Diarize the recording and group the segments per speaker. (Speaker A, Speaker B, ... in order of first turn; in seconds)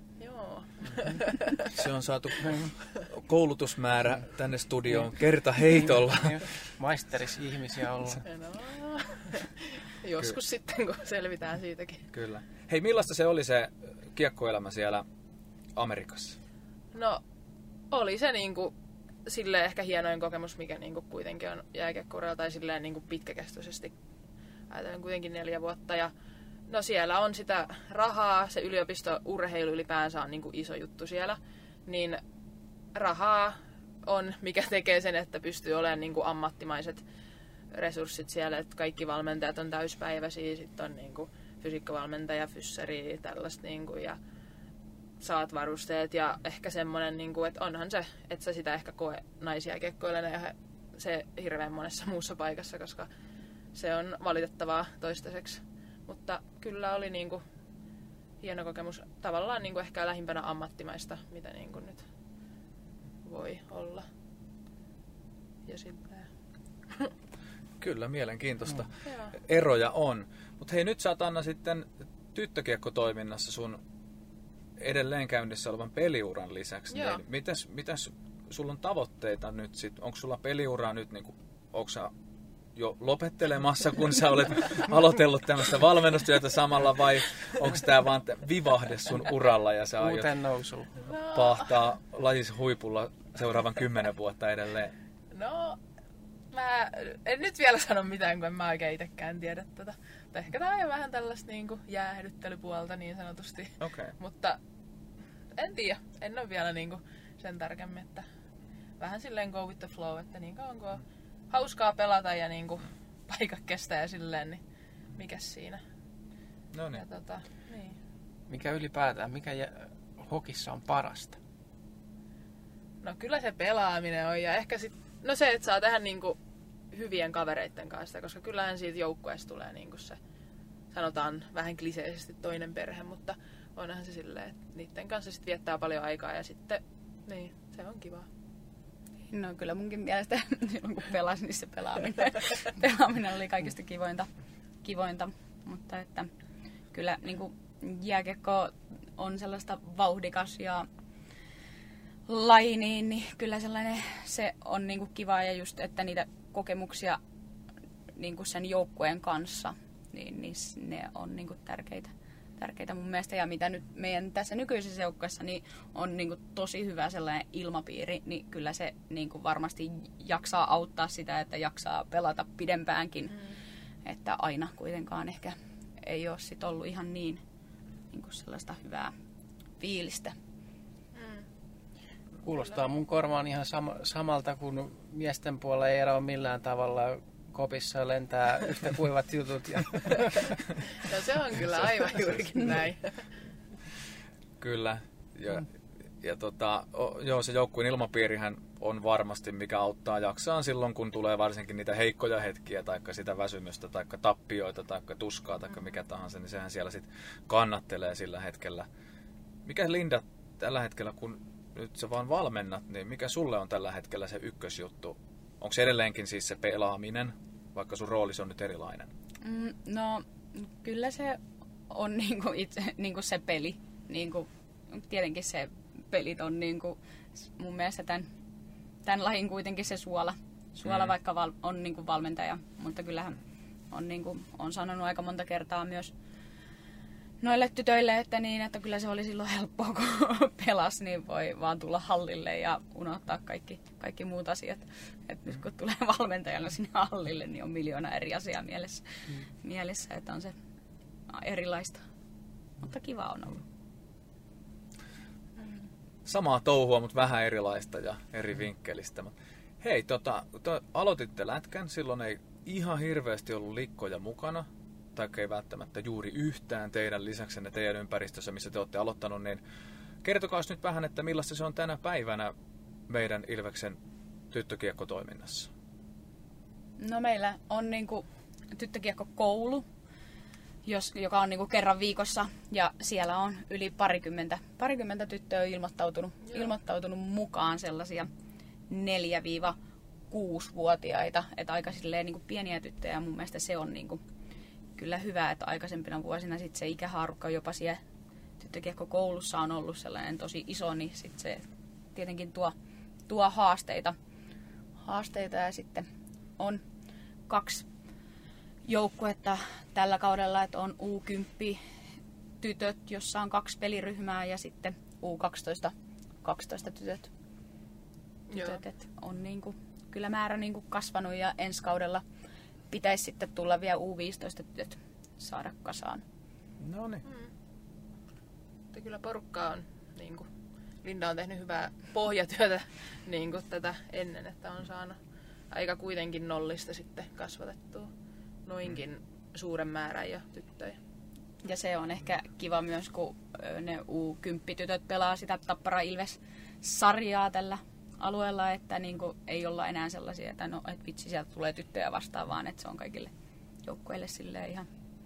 Speaker A: 0.2-1.7, 8.2-12.1, 16.9-17.2, 17.9-18.7, 19.3-23.9, 24.7-26.1, 26.7-32.2, 33.0-37.0, 37.7-44.2, 45.2-53.1, 53.7-57.4, 58.4-62.0, 63.2-64.1, 65.7-66.3, 69.0-69.3, 76.9-77.2, 91.1-91.7, 95.3-95.8, 96.5-104.6, 105.5-108.2, 109.0-114.6, 115.2-115.8, 117.0-118.0, 123.0-126.4, 126.9-130.2, 130.9-138.3, 181.2-181.5, 191.0-193.3, 318.5-318.8, 327.2-327.5, 328.9-330.5, 331.0-335.2, 335.7-338.1, 338.7-341.0
Speaker B: 1.7-6.5, 12.1-15.1, 15.8-16.4, 67.8-73.8, 74.8-82.1, 82.8-90.3, 91.3-94.9, 103.8-104.2, 116.7-117.0, 194.6-195.7, 196.2-208.9, 209.7-219.1, 230.8-231.1, 256.2-269.6, 270.2-272.5, 273.1-274.0, 274.5-275.7, 326.8-327.2
Speaker C: 6.2-8.3, 90.0-91.0, 118.5-121.4, 182.4-190.6
Speaker D: 139.3-144.3, 144.8-146.3, 146.9-150.9, 152.3-157.2, 158.2-173.4, 174.1-177.4, 178.1-179.1, 179.8-180.4, 219.4-228.3, 229.1-233.4, 233.9-236.1, 237.4-249.0, 249.6-250.6, 251.3-252.0, 252.8-253.7, 277.0-279.9, 280.9-288.3, 288.9-289.8, 290.3-294.2, 295.0-298.0, 298.6-302.7, 303.3-304.2, 305.0-306.1, 307.5-307.9, 308.9-311.8, 312.6-315.9, 316.4-317.3, 318.5-322.2, 322.9-326.2, 341.6-353.3, 353.9-354.9